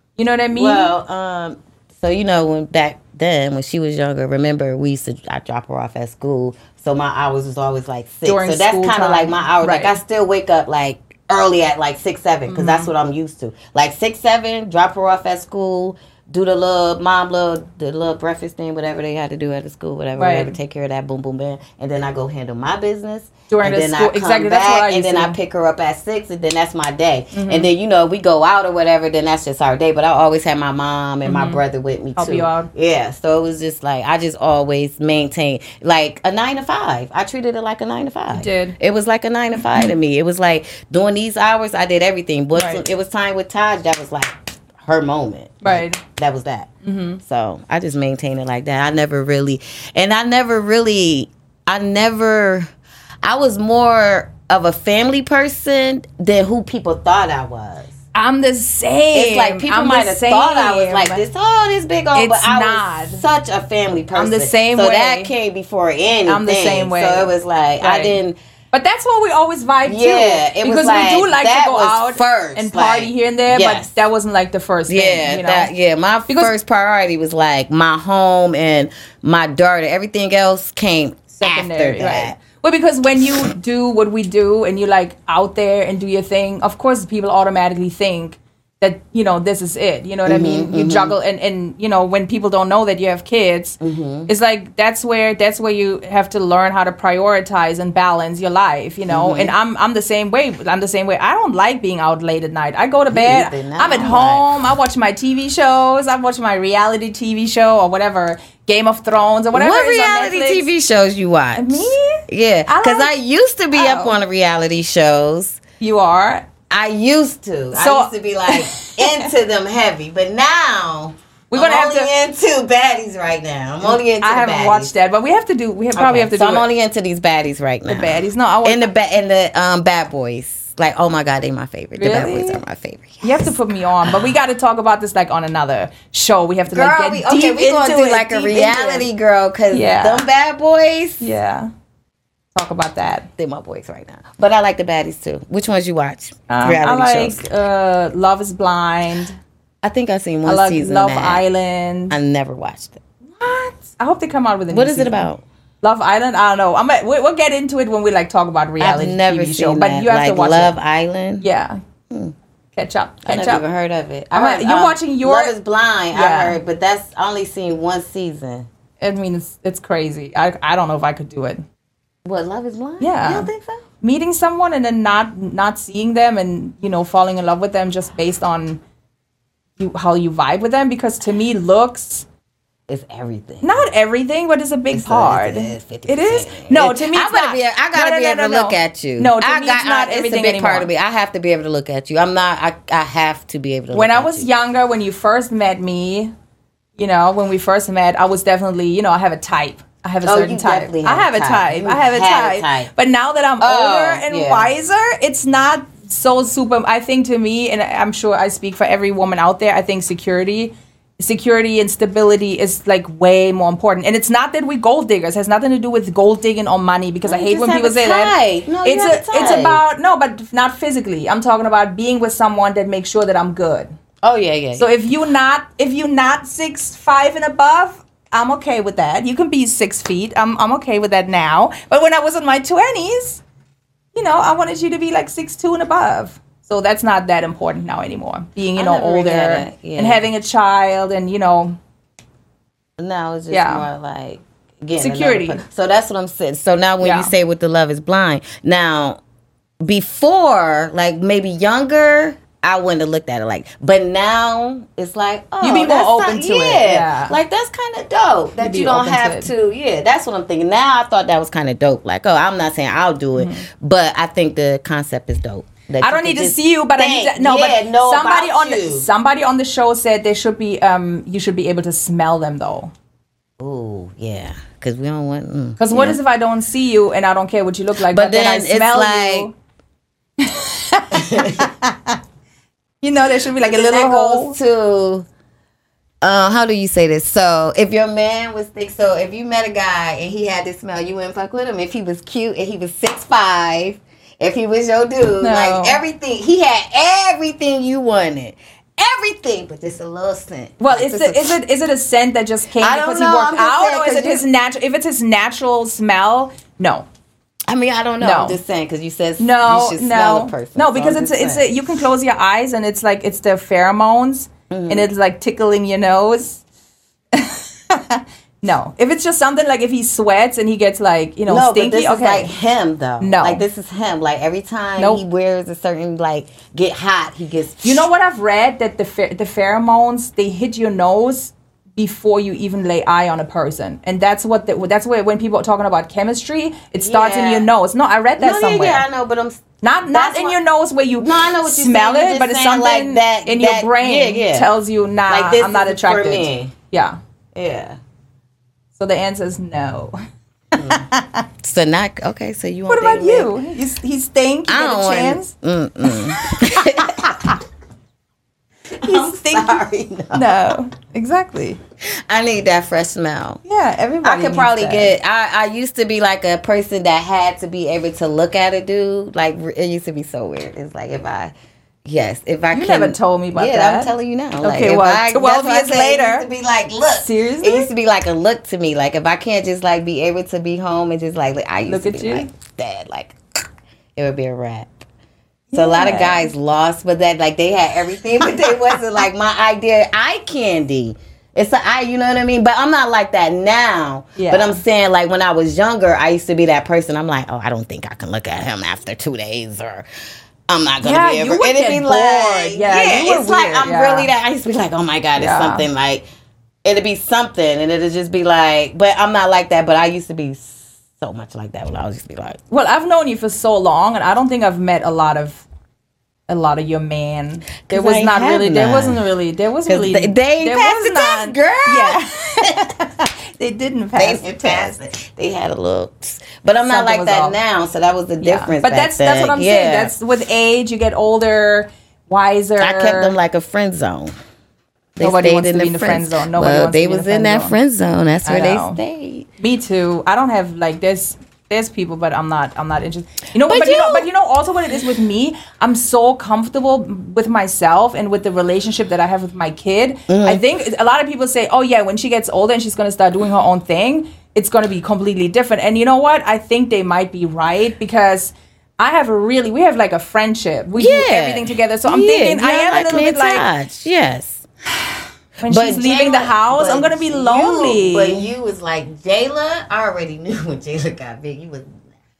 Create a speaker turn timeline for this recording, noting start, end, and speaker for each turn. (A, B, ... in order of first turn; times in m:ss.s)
0:00.2-0:00.9 A
0:00.5-0:46.7 B
0:08.2-0:10.0 A
0:12.5-0:12.9 A
0:20.2-0:20.5 A
0:23.5-0:25.4 A
0:27.3-0:27.7 A
0:31.2-0:31.6 A
0:32.2-0:32.7 A
0:38.3-0:38.8 A
0:42.5-0:42.8 A
0:45.6-0:46.0 A
0:46.8-0:47.2 A
0:47.2-0:52.7 B
0:53.2-0:57.9 B
0:58.1-1:01.2 A
0:59.1-1:08.4 B
1:02.1-1:03.2 A
1:04.1-1:05.3 A
1:06.2-1:08.2 A
1:08.7-1:15.7 A
1:09.8-1:13.9 B
1:14.9-1:22.4 B
1:16.3-1:16.5 A
1:21.4-1:50.7 A
1:30.2-1:31.2 B
1:33.8-1:34.3 B
1:39.1-1:39.5 B
1:43.1-1:44.5 B
1:49.5-1:55.6 B
1:51.6-1:53.1 A
1:53.7-1:54.2 A
1:55.8-1:56.4 A
1:56.7-2:04.9 B
1:57.7-1:59.3 A
2:01.5-2:02.1 A
2:03.8-2:06.7 A
2:05.9-2:14.3 B
2:07.9-2:08.9 A
2:12.0-2:12.6 A
2:13.2-2:19.1 A
2:16.7-2:21.3 B
2:19.7-2:20.2 A
2:21.2-2:21.7 A
2:22.6-2:23.3 A
2:23.4-2:27.4 B
2:26.5-2:29.4 A
2:29.8-2:31.4 B
2:30.4-2:32.2 A
2:32.1-2:33.0 B
2:33.4-2:35.3 A
2:34.7-2:35.4 B
2:35.8-2:40.8 A
2:38.8-2:41.4 B
2:41.4-2:41.8 A
2:42.7-2:43.6 A
2:43.2-2:48.7 B
2:44.3-2:45.5 A
2:46.1-2:46.6 A
2:49.0-2:51.6 A
2:52.2-2:53.8 B
2:53.0-2:53.5 A
2:54.0-2:58.8 A
2:59.8-3:02.2 A
3:02.9-3:03.8 B
3:03.6-3:10.9 A
3:04.9-3:14.5 B
3:13.9-3:16.3 A
3:17.0-3:43.9 A
3:20.2-3:22.9 B
3:23.6-3:24.7 B
3:37.2-3:39.8 B
3:44.2-3:44.9 B
3:44.8-3:53.4 A
3:54.1-4:01.8 A
3:58.8-4:00.2 B
4:03.0-4:09.2 B
4:03.5-4:03.9 A
4:05.0-4:05.6 A
4:07.0-4:07.3 A
4:09.8-4:29.1 B
4:15.6-4:17.4 A
4:18.6-4:19.5 A
4:23.4-4:23.7 A
4:26.0-4:32.9 A
4:33.6-4:36.2 B
4:35.8-4:39.5 A
4:38.1-4:39.5 B
4:40.4-4:42.1 A
4:41.1-4:41.7 B
4:43.0-4:44.6 A
4:43.6-4:45.2 B
4:46.2-5:01.6 B
4:55.4-4:56.0 A
5:00.8-5:07.1 A
5:02.8-5:04.4 B
5:07.7-5:11.8 B
5:08.2-5:08.6 A
5:09.4-5:16.6 A
5:14.7-5:15.1 B
5:17.3-5:22.5 A
5:21.5-5:28.1 B
5:23.2-5:23.6 A
5:25.0-5:25.2 A
5:27.8-5:39.0 A
5:37.0-5:37.7 B
5:38.4-5:40.6 B
5:39.8-5:47.2 A
5:41.2-5:44.7 B
5:45.3-5:46.7 B
5:47.6-5:48.0 B
5:48.9-5:50.2 A
5:50.7-5:51.4 A
5:50.7-5:51.0 B
5:51.6-5:53.5 B
5:52.9-5:55.5 A
5:54.7-5:57.6 B
5:56.0-5:57.5 A
5:59.0-6:01.8 A
5:59.0-6:00.7 B
6:02.0-6:03.6 B
6:03.6-6:05.1 A
6:04.2-6:11.5 B
6:12.0-6:23.4 B
6:12.7-6:16.4 A
6:17.2-6:17.9 A
6:21.8-6:22.5 A
6:24.2-6:25.0 B
6:25.7-6:26.5 A
6:25.7-6:40.0 B
6:34.4-6:34.8 A
6:40.7-6:46.2 B
6:41.0-6:44.3 A
6:45.4-6:45.9 A
6:46.8-6:52.6 B
6:52.7-6:55.6 A
6:56.5-7:04.9 A
6:57.9-6:59.2 B
6:59.8-7:02.9 B
7:04.1-7:10.1 B
7:06.8-7:07.6 A
7:08.4-7:13.4 A
7:12.8-7:14.4 B
7:15.2-7:19.5 B
7:15.2-7:17.8 A
7:18.4-7:19.0 A
7:19.6-7:43.7 A
7:23.6-7:24.3 B
7:30.3-7:30.6 B
7:41.0-7:44.6 B
7:45.0-7:48.5 A
7:45.6-7:52.0 B